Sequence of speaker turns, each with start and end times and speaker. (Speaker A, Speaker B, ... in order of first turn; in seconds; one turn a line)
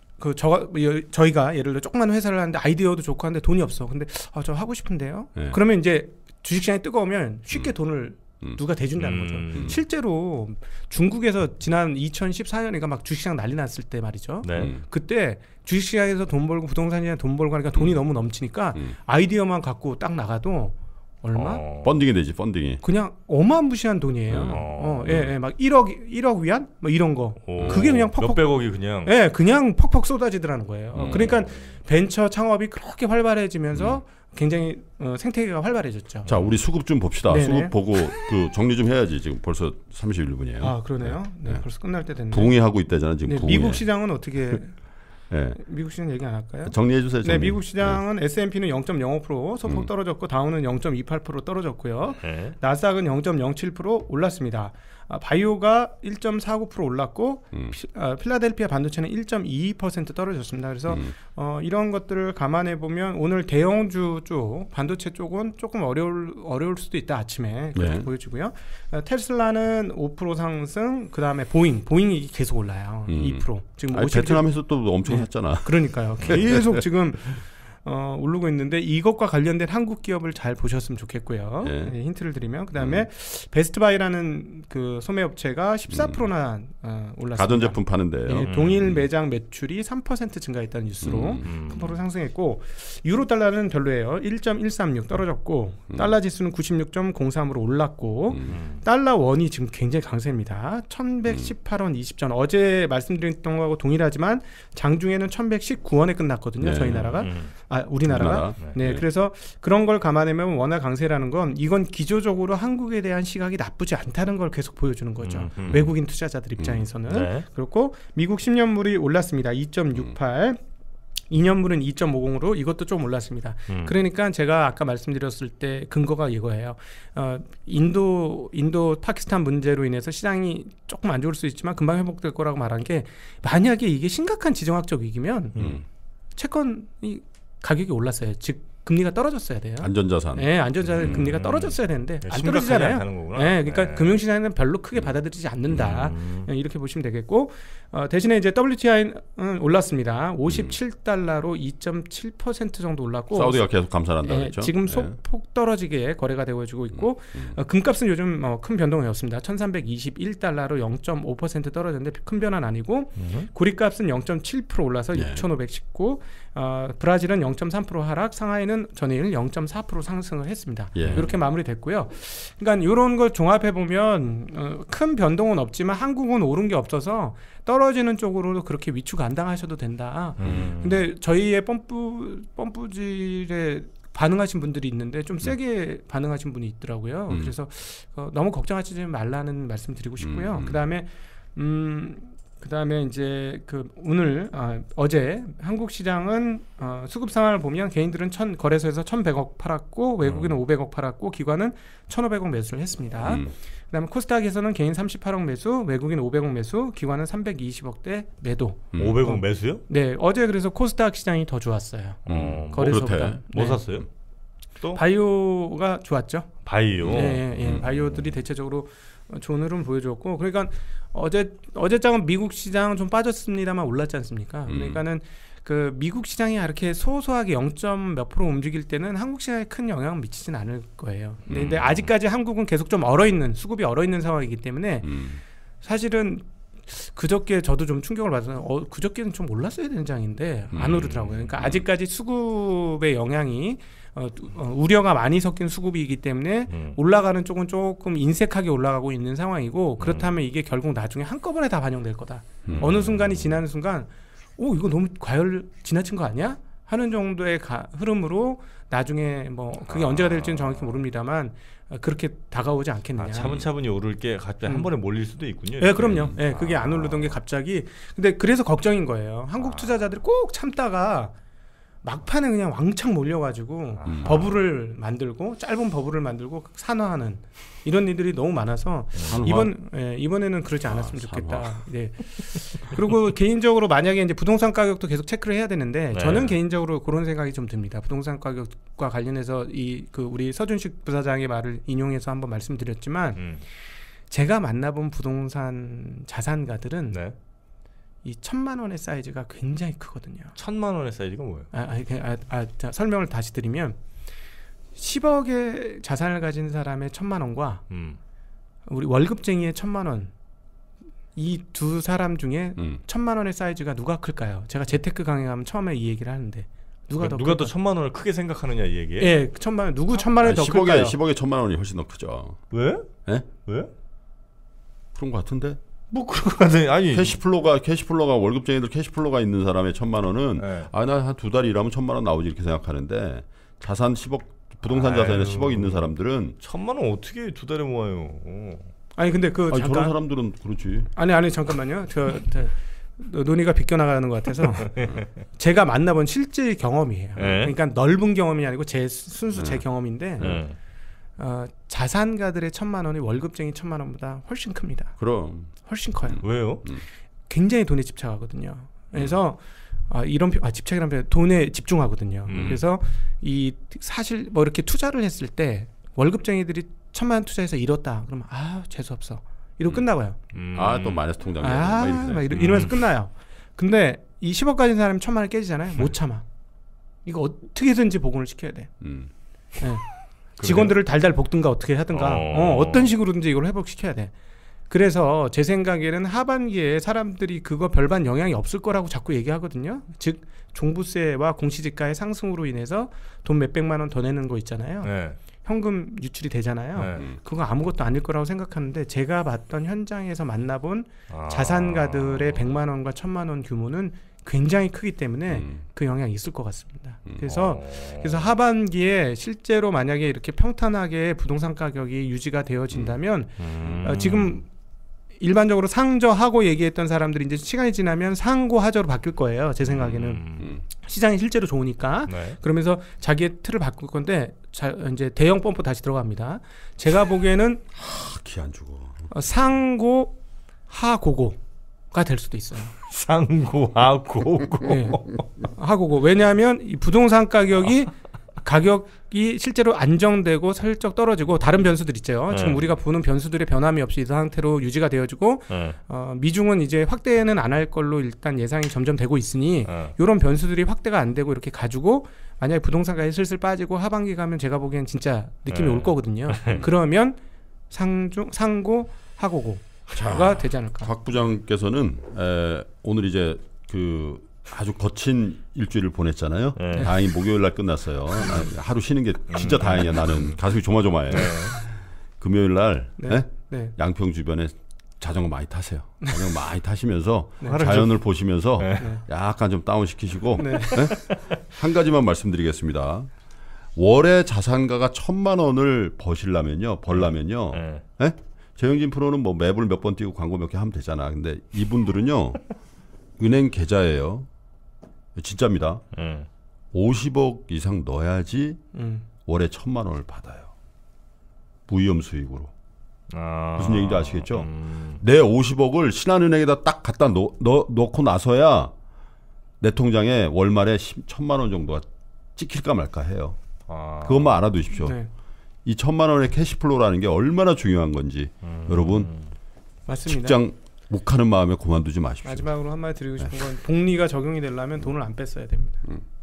Speaker A: 0.2-21.6
Speaker B: 9.0-9.8
Speaker B: 14.4-14.7
Speaker C: 14.5-14.8
Speaker B: 21.3-22.0
Speaker C: 21.8-22.8
Speaker A: 22.8-28.5
Speaker C: 24.3-25.3
Speaker B: 24.4-25.3
Speaker B: 27.5-29.1
Speaker C: 27.5-27.9
Speaker A: 29.0-36.3
Speaker C: 30.9-31.3
Speaker B: 30.9-31.7
Speaker C: 33.7-34.0
Speaker B: 36.2-36.5
Speaker C: 36.2-41.6
Speaker A: 37.3-38.2
Speaker A: 40.6-42.6
Speaker C: 42.3-43.9
Speaker A: 43.2-44.8
Speaker C: 45.3-45.6
Speaker A: 45.6-74.5
Speaker C: 46.6-48.0
Speaker B: 52.2-52.5
Speaker C: 60.9-61.1
Speaker C: 67.8-68.1
Speaker C: 73.1-76.8
Speaker A: 75.0-120.6
Speaker C: 81.6-81.9
Speaker C: 82.8-83.1
Speaker C: 85.9-86.2
Speaker C: 87.3-89.0
Speaker B: 88.4-89.0
Speaker C: 91.0-91.5
Speaker B: 91.4-92.0
Speaker C: 98.3-98.6
Speaker B: 98.5-98.8
Speaker C: 106.6-107.1
Speaker B: 106.9-107.5
Speaker C: 108.0-109.0
Speaker B: 115.2-115.9
Speaker C: 116.6-116.8
Speaker B: 117.1-117.5
Speaker A: 121.3-135.6
Speaker B: 123.7-124.0
Speaker B: 135.6-135.8
Speaker C: 135.6-135.8
Speaker A: 136.4-153.7
Speaker C: 139.8-141.3
Speaker B: 141.0-144.2
Speaker B: 145.8-146.5
Speaker C: 150.5-150.8
Speaker C: 153.3-155.2
Speaker A: 154.2-213.9
Speaker C: 156.9-157.6
Speaker B: 163.2-163.5
Speaker C: 165.1-165.4
Speaker C: 170.9-171.3
Speaker B: 171.0-171.3
Speaker B: 180.4-181.1
Speaker C: 180.4-180.7
Speaker C: 187.3-187.5
Speaker C: 190.2-190.8
Speaker B: 200.2-200.6
Speaker C: 203.2-203.5
Speaker C: 208.9-209.2
Speaker B: 208.9-209.8
Speaker B: 212.3-214.1
Speaker C: 212.3-213.4
Speaker A: 214.9-235.2
Speaker B: 216.7-217.9
Speaker C: 217.0-217.9
Speaker C: 224.7-225.0
Speaker C: 231.5-232.0
Speaker C: 235.0-235.4
Speaker A: 235.8-263.6
Speaker C: 240.7-241.1
Speaker B: 240.8-241.5
Speaker B: 246.7-247.0
Speaker B: 250.0-250.3
Speaker B: 252.7-253.6
Speaker B: 259.9-261.0
Speaker B: 263.2-267.4
Speaker C: 263.4-263.6
Speaker A: 264.6-264.9
Speaker A: 265.8-271.3
Speaker B: 269.6-269.9
Speaker A: 272.0-293.4
Speaker B: 274.0-274.7
Speaker C: 274.1-274.4
Speaker B: 279.1-279.5
Speaker C: 279.3-279.7
Speaker C: 280.9-281.8
Speaker B: 286.1-286.6
Speaker B: 293.4-293.6
Speaker A: 294.3-297.3
Speaker B: 297.1-297.4
Speaker A: 298.2-300.6
Speaker B: 300.6-301.7
Speaker A: 301.7-304.0
Speaker A: 305.0-307.8
Speaker B: 307.9-308.2
Speaker A: 308.9-310.3
Speaker A: 311.4-317.7
Speaker B: 317.2-319.3
Speaker A: 319.2-321.1
Speaker C: 320.4-322.6
Speaker B: 322.7-323.1
Speaker B: 323.6-323.9
Speaker C: 325.2-325.8
Speaker B: 326.1-327.4
Speaker C: 327.1-336.6
Speaker B: 330.6-330.9
Speaker B: 334.9-336.1
Speaker B: 336.6-338.9
Speaker A: 339.2-340.1
Speaker C: 339.7-341.1
Speaker A: 341.1-350.6
Speaker B: 344.9-345.2
Speaker B: 347.4-347.8
Speaker C: 349.5-349.8
Speaker C: 350.4-350.6
Speaker B: 350.4-350.8
Speaker A: 351.4-355.2
Speaker C: 355.2-355.7
Speaker A: 355.8-356.6
Speaker C: 356.3-357.1
Speaker B: 356.4-356.8
Speaker A: 357.5-370.4
Speaker B: 362.5-362.8
Speaker B: 370.5-371.2
Speaker C: 370.7-372.9
Speaker A: 371.6-376.4
Speaker B: 372.6-372.9
Speaker A: 377.2-378.9
Speaker C: 379.0-379.3
Speaker B: 380.6-380.9
Speaker A: 380.6-384.3
Speaker B: 382.1-383.1
Speaker A: 384.9-414.7
Speaker B: 395.0-395.4
Speaker B: 397.0-397.3
Speaker B: 401.3-402.7
Speaker C: 405.5-405.8
Speaker B: 407.4-408.5
Speaker B: 413.6-414.6
Speaker A: 415.4-427.8
Speaker B: 419.9-420.8
Speaker B: 422.3-422.6
Speaker C: 427.9-429.2
Speaker A: 429.3-430.4
Speaker A: 430.9-431.6
Speaker A: 432.1-432.9
Speaker B: 433.1-435.5
Speaker A: 434.9-457.4
Speaker B: 442.5-442.9
Speaker B: 445.7-446.0
Speaker B: 449.9-450.1
Speaker B: 455.7-456.8
Speaker A: 457.9-461.1
Speaker C: 460.1-483.3
Speaker B: 466.8-467.1
Speaker B: 469.5-470.5
Speaker B: 471.3-471.8
Speaker A: 473.2-473.9
Speaker A: 477.6-477.9
Speaker B: 477.7-478.2
Speaker B: 478.8-479.1
Speaker A: 479.0-479.2
Speaker A: 480.6-481.4
Speaker C: 484.0-492.6
Speaker B: 487.1-488.0
Speaker C: 493.4-494.5
Speaker C: 495.4-496.0
Speaker B: 496.1-496.5
Speaker C: 496.9-498.8
Speaker A: 498.9-499.2
Speaker C: 499.5-500.7
Speaker C: 501.9-502.7
Speaker B: 503.3-505.2
Speaker C: 503.8-508.9
Speaker C: 509.8-513.6
Speaker B: 513.9-514.5
Speaker C: 514.2-515.2
Speaker A: 515.0-515.3
Speaker C: 515.9-519.3
Speaker B: 518.6-519.5
Speaker A: 520.1-520.6
Speaker C: 520.3-522.7
Speaker A: 522.4-526.1